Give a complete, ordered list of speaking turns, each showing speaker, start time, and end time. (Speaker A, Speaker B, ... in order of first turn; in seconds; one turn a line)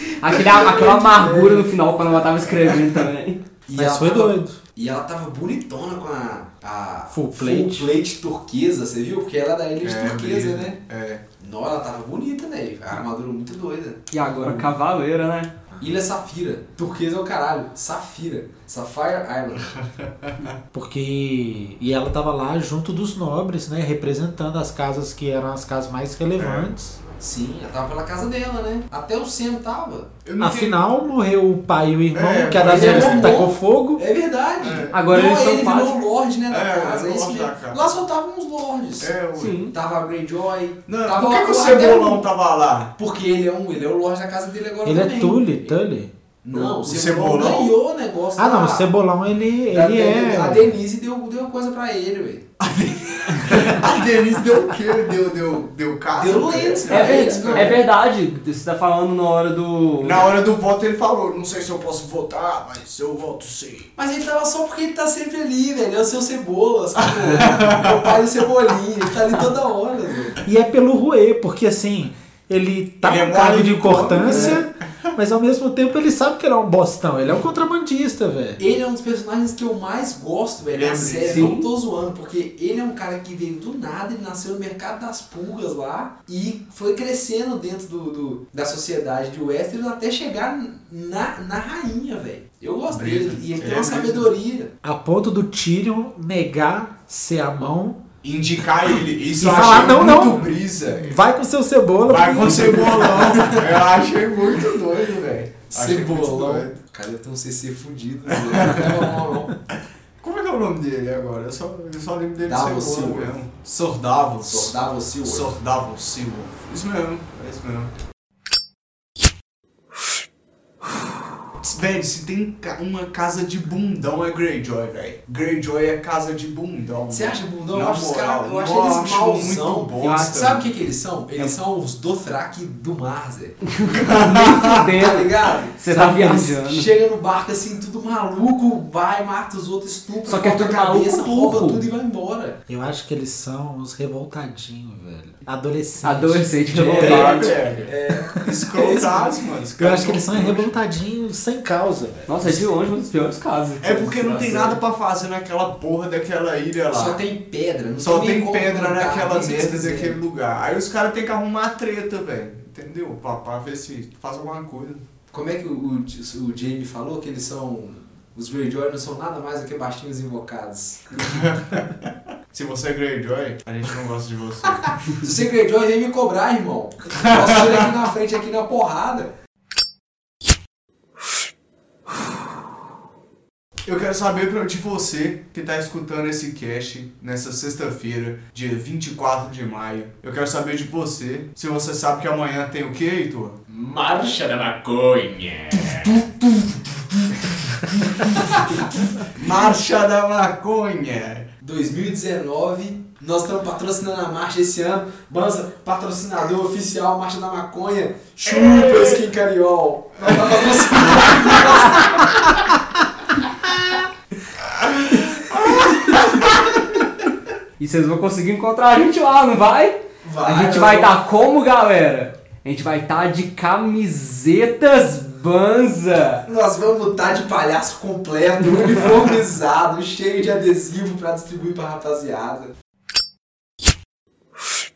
Speaker A: 0.2-3.4
Speaker B: 0.2-1.8
Speaker B: 3.7-10.8
Speaker C: 3.8-4.6
Speaker C: 7.1-7.9
Speaker D: 9.8-11.2
Speaker B: 11.4-14.0
Speaker A: 14.1-15.5
Speaker B: 15.8-19.7
Speaker D: 19.7-20.6
Speaker C: 20.7-27.0
Speaker D: 26.4-26.7
Speaker B: 27.2-30.1
Speaker D: 30.2-30.8
Speaker C: 30.4-34.0
Speaker D: 32.1-33.4
Speaker B: 32.6-39.1
Speaker D: 34.6-35.0
Speaker A: 34.9-36.0
Speaker D: 36.5-37.9
Speaker D: 39.0-39.6
Speaker A: 39.4-39.8
Speaker B: 39.7-42.3
Speaker D: 40.9-42.9
Speaker B: 43.0-45.8
Speaker C: 44.8-46.1
Speaker B: 46.4-48.9
Speaker D: 46.5-47.7
Speaker C: 48.4-50.7
Speaker B: 49.7-52.5
Speaker D: 52.6-57.8
Speaker B: 56.1-57.8
Speaker A: 56.9-60.3
Speaker D: 60.0-63.9
Speaker B: 64.0-70.4
Speaker D: 67.2-68.2
Speaker C: 70.5-78.6
Speaker D: 73.0-74.7
Speaker A: 74.3-74.6
Speaker B: 78.6-94.7
Speaker D: 80.7-81.5
Speaker A: 81.3-81.7
Speaker D: 92.9-94.3
Speaker C: 94.8-98.0
Speaker D: 98.2-101.2
Speaker C: 99.3-103.5
Speaker D: 102.1-106.8
Speaker B: 105.7-109.5
Speaker D: 108.4-109.2
Speaker D: 110.2-117.9
Speaker B: 112.4-113.3
Speaker B: 114.4-115.6
Speaker D: 121.6-130.7
Speaker B: 127.1-133.6
Speaker A: 130.0-130.4
Speaker A: 133.7-136.9
Speaker D: 133.9-134.9
Speaker B: 134.2-142.6
Speaker A: 140.3-141.9
Speaker C: 142.7-147.5
Speaker A: 146.0-147.8
Speaker D: 146.8-150.7
Speaker B: 147.0-149.3
Speaker C: 149.8-152.7
Speaker A: 152.3-154.7
Speaker D: 153.8-157.2
Speaker B: 154.2-154.8
Speaker B: 156.9-160.2
Speaker D: 158.0-165.0
Speaker B: 165.3-171.4
Speaker D: 171.2-175.2
Speaker B: 175.1-179.3
Speaker D: 177.2-177.8
Speaker D: 183.9-193.6
Speaker B: 193.7-195.1
Speaker D: 195.8-201.5
Speaker B: 198.3-199.2
Speaker B: 201.6-212.4
Speaker D: 208.5-209.2
Speaker D: 210.3-211.8
Speaker D: 214.7-216.7
Speaker A: 217.8-226.4
Speaker B: 220.2-221.2
Speaker B: 226.5-232.7